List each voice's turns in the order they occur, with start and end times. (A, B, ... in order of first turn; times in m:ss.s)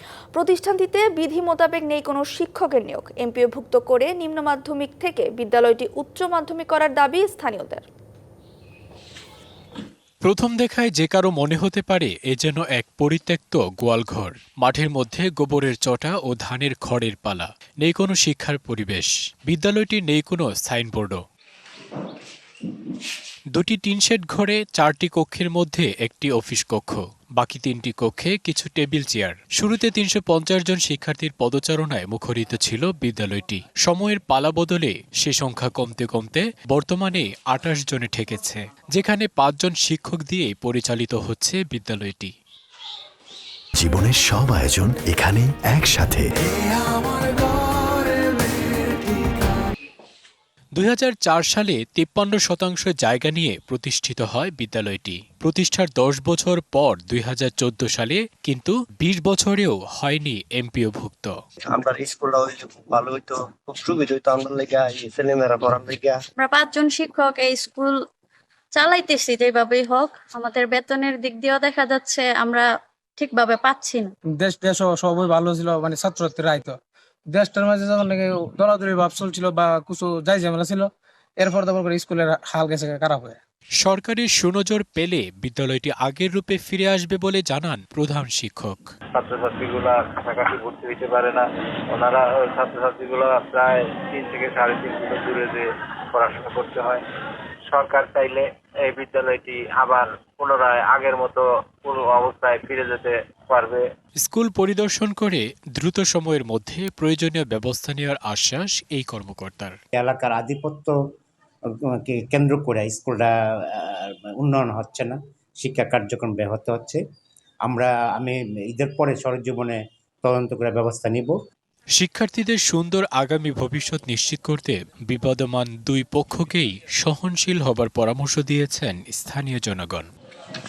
0:00.3-0:07.8 A
0:10.2-0:21.2 B
0:23.5-0:42.3 B
0:43.8-0:46.3 C
0:50.8-1:01.3 B
1:01.7-1:06.2 D
1:06.4-1:07.9 E
1:08.8-1:12.6 E
1:13.2-1:14.0 E
1:14.4-1:16.8 F
1:17.3-1:23.4 F
1:23.8-1:28.8 B
1:29.2-1:37.0 G
1:37.7-1:43.8 G
1:44.2-1:49.8 B
1:49.9-1:51.0 H
1:51.8-1:57.0 H
1:57.6-2:01.4 H
2:02.0-2:10.1 B